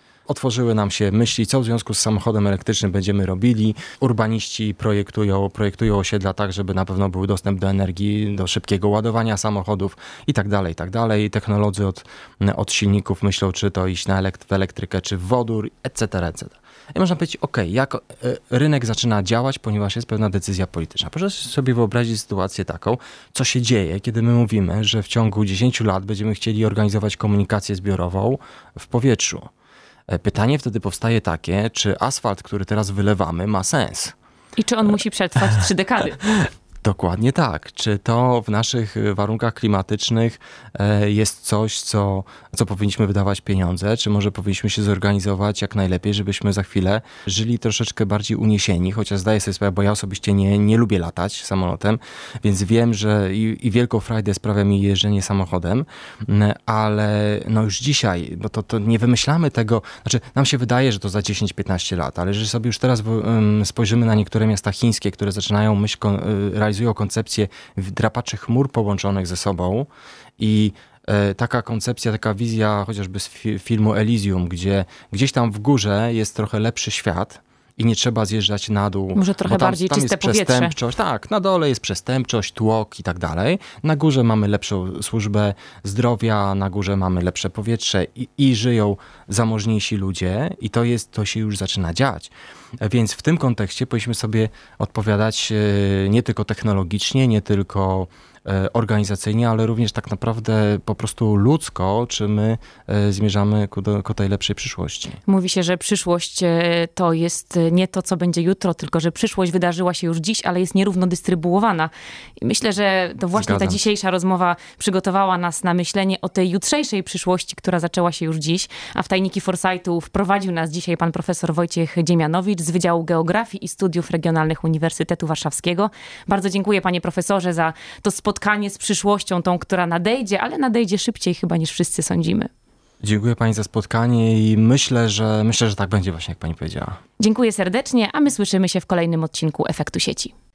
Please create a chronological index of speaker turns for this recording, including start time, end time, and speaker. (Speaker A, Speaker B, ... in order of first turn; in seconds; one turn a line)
Speaker A: 0.3-29.4
Speaker A: 30.1-34.1
Speaker B: 34.6-36.3
Speaker A: 36.8-105.2
Speaker B: 79.1-80.8
Speaker B: 105.3-132.5
Speaker A: 113.3-113.8
Speaker A: 133.0-137.0
Speaker B: 137.2-140.3